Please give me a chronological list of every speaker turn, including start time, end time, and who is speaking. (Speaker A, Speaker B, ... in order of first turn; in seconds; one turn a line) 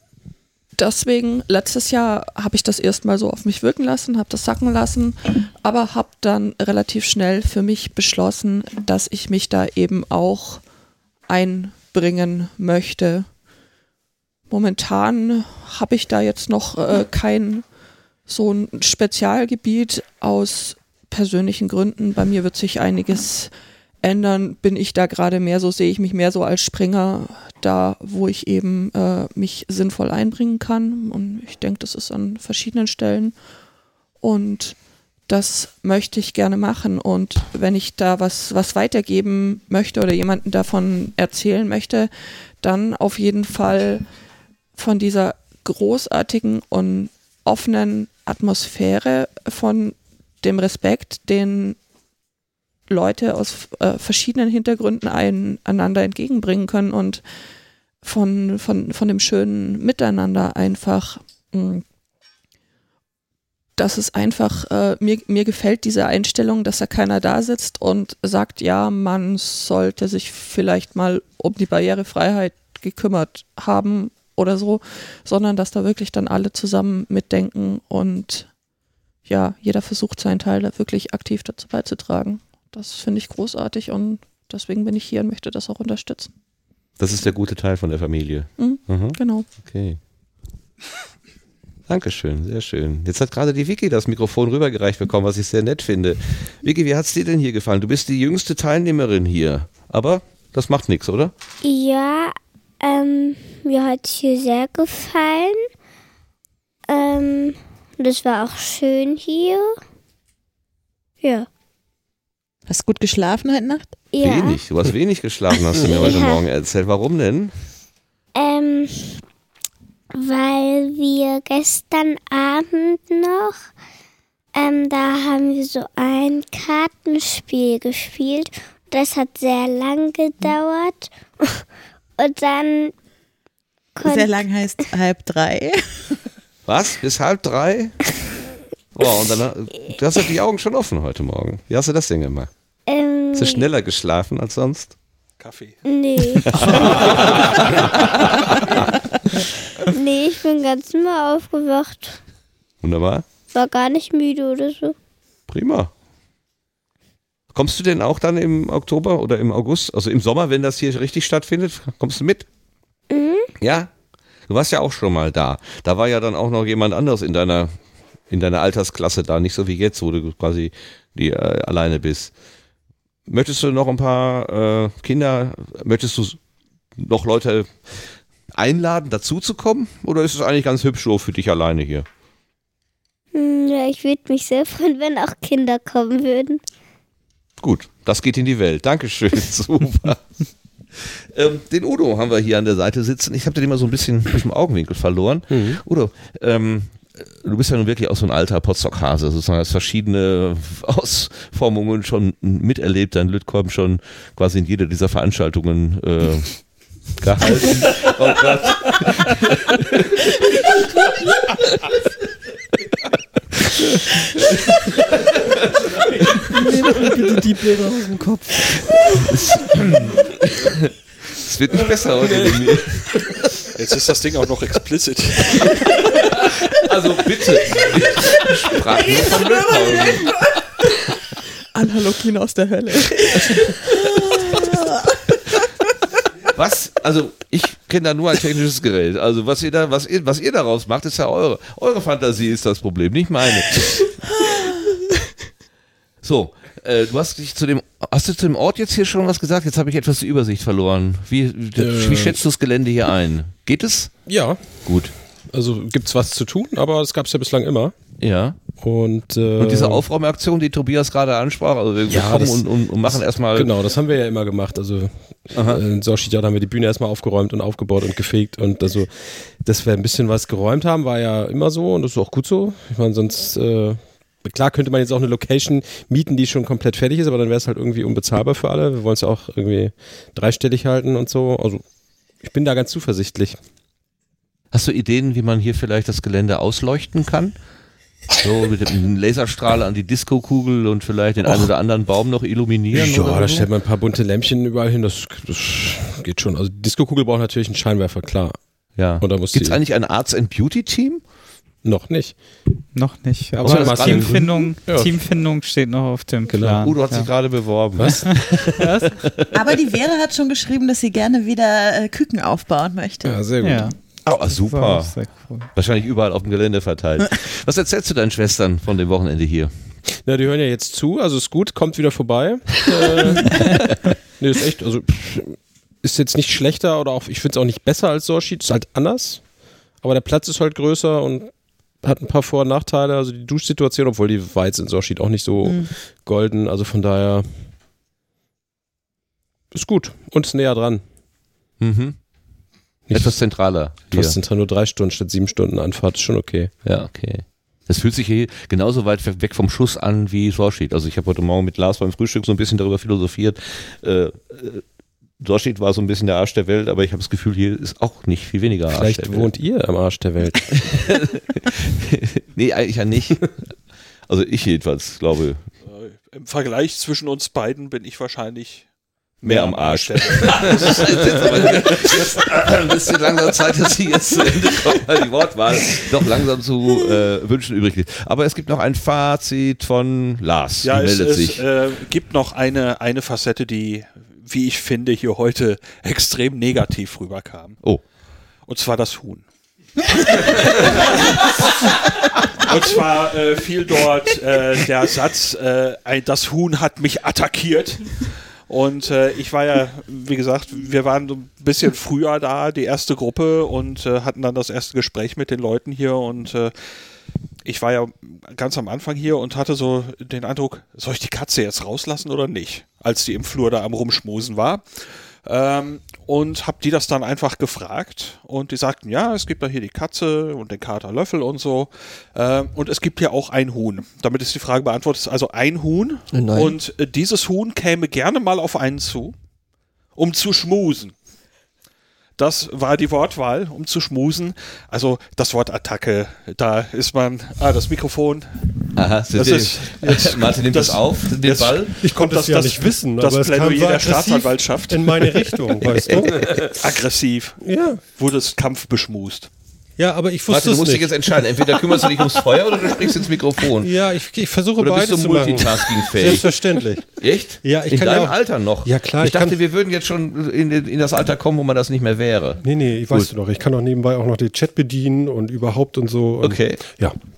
Speaker A: 0.8-10.6
Speaker A: 11.3-13.3
Speaker A: 14.5-17.7
Speaker A: 18.3-33.4
Speaker A: 34.2-44.1
Speaker A: 44.8-51.8
Speaker A: 52.9-57.2
Speaker A: 58.0-61.9
Speaker A: 63.8-78.5
Speaker A: 79.3-86.3
Speaker B: 87.0-90.0
Speaker A: 88.6-89.5
Speaker B: 91.9-101.3
Speaker C: 101.6-105.7
Speaker C: 106.9-109.8
Speaker C: 111.2-111.5
Speaker D: 112.7-114.0
Speaker C: 114.1-114.6
Speaker B: 114.2-117.5
Speaker C: 115.8-116.4
Speaker C: 118.3-119.2
Speaker C: 120.2-123.7
Speaker C: 124.5-131.6
Speaker C: 132.2-132.9
Speaker C: 134.0-134.9
Speaker D: 134.1-136.2
Speaker B: 136.7-138.0
Speaker B: 138.9-142.5
Speaker C: 142.9-143.7
Speaker B: 143.3-144.9
Speaker E: 145.4-145.8
Speaker C: 145.8-146.9
Speaker B: 146.5-148.9
Speaker E: 146.8-148.0
Speaker C: 149.9-152.2
Speaker B: 152.8-153.2
Speaker C: 153.5-155.0
Speaker B: 155.5-155.9
Speaker B: 157.5-162.5
Speaker C: 163.1-163.5
Speaker B: 163.6-163.9
Speaker B: 164.5-167.7
Speaker B: 168.3-172.3
Speaker B: 173.3-176.4
Speaker B: 177.0-182.1
Speaker C: 183.3-186.6
Speaker B: 187.6-190.2
Speaker B: 190.9-210.8
Speaker F: 195.5-195.8
Speaker B: 215.5-216.4
Speaker G: 216.5-218.5
Speaker B: 219.3-223.4
Speaker E: 223.8-225.6
Speaker B: 226.8-230.3
Speaker A: 231.7-233.7
Speaker B: 236.5-244.1
Speaker B: 246.2-254.3
Speaker F: 251.8-252.4
Speaker F: 254.3-257.9
Speaker B: 254.8-255.2
Speaker B: 258.2-258.6
Speaker F: 258.8-260.0
Speaker B: 259.6-263.7
Speaker F: 262.1-281.9
Speaker B: 265.6-265.8
Speaker F: 282.4-283.6
Speaker B: 284.7-287.5
Speaker B: 288.4-293.7
Speaker F: 291.4-291.7
Speaker F: 292.9-298.6
Speaker B: 299.0-301.2
Speaker F: 299.2-299.8
Speaker F: 301.8-302.4
Speaker H: 302.9-307.5
Speaker F: 303.6-305.2
Speaker B: 303.6-304.5
Speaker F: 306.5-307.0
Speaker B: 306.8-308.5
Speaker F: 308.0-308.8
Speaker H: 308.7-309.1
Speaker D: 309.5-313.4
Speaker F: 313.2-313.9
Speaker H: 313.6-315.7
Speaker B: 314.3-319.7
Speaker F: 320.1-329.5
Speaker F: 330.0-337.7
Speaker D: 335.6-335.9
Speaker F: 339.7-341.0
Speaker B: 341.8-342.2
Speaker F: 343.1-343.4
Speaker B: 343.1-344.4
Speaker F: 344.0-346.7
Speaker B: 346.9-354.8
Speaker B: 355.4-359.5
Speaker F: 358.9-361.1
Speaker B: 360.8-363.8
Speaker B: 364.3-365.7
Speaker E: 365.8-368.9
Speaker E: 369.4-372.4
Speaker B: 369.4-381.6
Speaker E: 380.8-387.8
Speaker E: 388.7-389.5
Speaker E: 390.5-391.1
Speaker E: 392.6-406.9
Speaker E: 407.6-429.4
Speaker G: 426.3-426.8
Speaker E: 430.1-431.2
Speaker E: 432.4-438.6
Speaker B: 439.0-442.0
Speaker E: 439.3-445.6
Speaker I: 442.0-446.8
Speaker E: 446.6-449.5
Speaker I: 447.6-448.1
Speaker I: 450.0-452.1
Speaker B: 450.5-454.1
Speaker I: 453.8-459.6
Speaker B: 454.8-463.3
Speaker I: 462.6-467.2
Speaker B: 466.4-466.8